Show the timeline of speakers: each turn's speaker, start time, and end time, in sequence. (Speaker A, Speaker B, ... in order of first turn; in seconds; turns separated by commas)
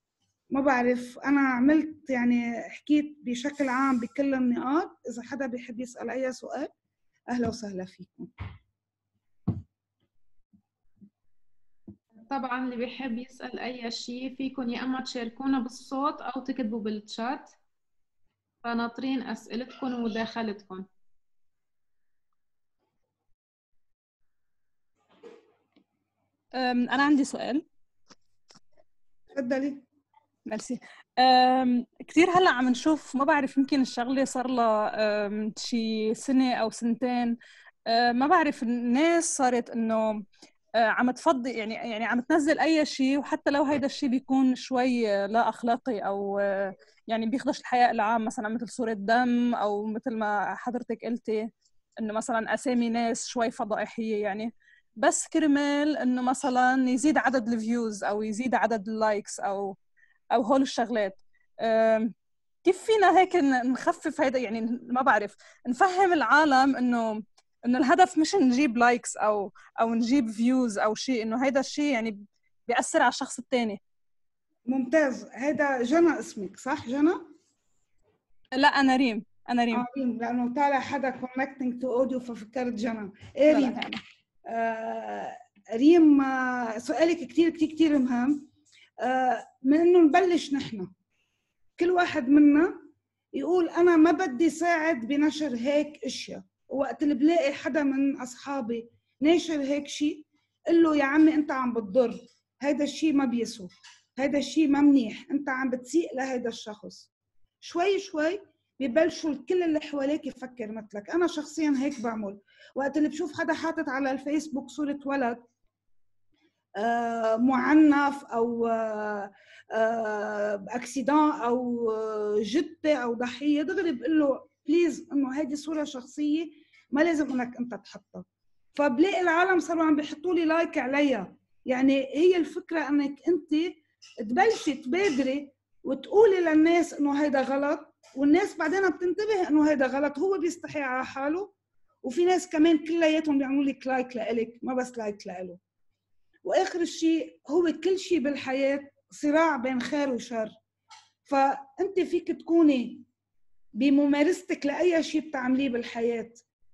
Speaker A: 0.5-6.7, Speaker A: 7.3-8.3, Speaker B: 12.3-17.5, Speaker B: 18.6-20.9, Speaker C: 26.5-27.6, Speaker A: 29.3-29.8, Speaker C: 30.5-37.4, Speaker C: 37.9-40.2, Speaker C: 40.8-59.8, Speaker C: 60.3-62.1, Speaker C: 62.6-73.8, Speaker A: 74.7-77.3, Speaker C: 78.5-79.8, Speaker A: 79.7-83.8, Speaker C: 83.5-83.9, Speaker A: 84.5-88.5, Speaker A: 89.0-90.9, Speaker A: 91.8-92.8, Speaker A: 93.3-107.1, Speaker A: 107.6-115.4, Speaker A: 116.8-141.5, Speaker A: 142.0-145.6, Speaker A: 146.4-150.5, Speaker A: 151.2-153.1, Speaker A: 153.8-156.4